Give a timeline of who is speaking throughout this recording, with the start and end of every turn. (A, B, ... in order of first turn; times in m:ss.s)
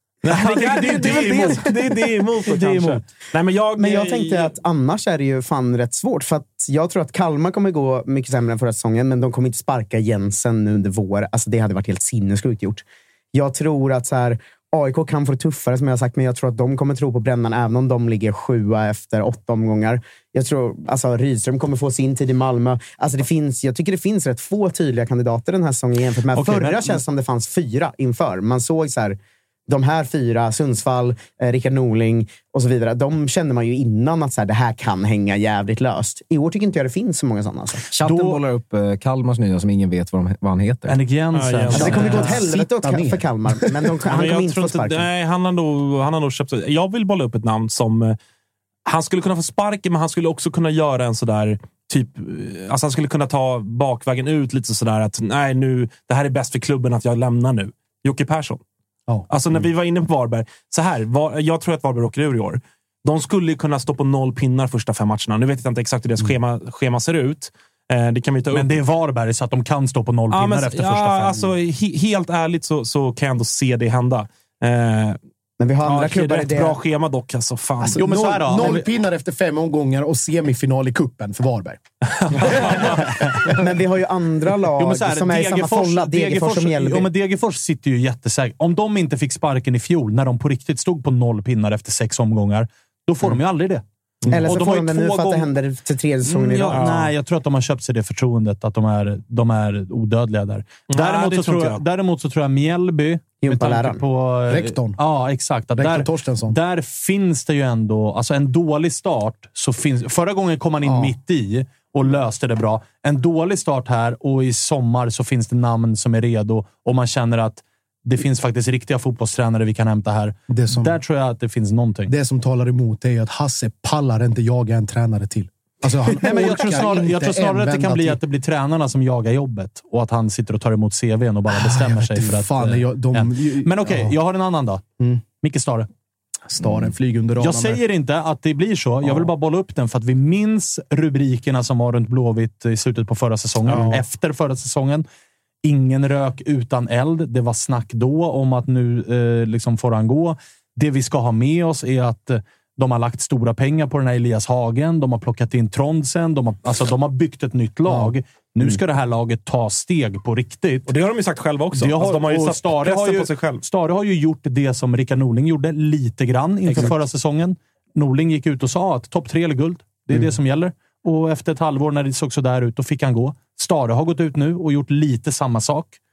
0:00.2-0:04.5 A
0:00.3-0:01.8 B
0:02.5-0:03.1 B
0:03.8-0:37.8 C
0:26.3-0:27.0 B
0:37.9-0:41.0 D
0:38.0-0:38.4 B
0:40.9-0:42.4 B
0:41.3-0:42.1 A
0:41.8-0:45.1 C
0:41.8-0:43.7 E
0:44.1-0:48.2 A
0:48.9-0:58.6 A
0:59.3-1:08.8 A
1:08.5-1:11.5 B
1:10.3-1:15.2 A
1:15.6-1:16.8 C
1:15.8-1:18.1 A
1:17.8-1:21.8 E
1:17.9-1:18.9 B
1:22.1-1:23.1 A
1:22.4-1:22.9 E
1:23.5-1:27.1 C
1:24.8-1:35.5 B
1:34.2-1:34.5 E
1:34.3-1:36.8 C
1:36.3-2:02.1 B
1:36.7-1:37.1 A
1:40.9-1:41.8 A
1:43.4-1:44.0 C
1:44.5-1:45.0 E
1:45.7-1:46.6 E
1:50.8-1:51.1 E
2:00.5-2:01.0 E
2:02.1-2:08.2 E
2:06.2-2:14.8 B
2:11.5-2:14.2 E
2:15.4-2:15.9 B
2:16.5-2:17.8 E
2:17.4-2:25.1 B
2:23.7-2:24.0 E
2:25.6-2:40.9 B
2:37.9-2:38.8 E
2:40.9-2:43.6 A
2:41.7-2:56.0 B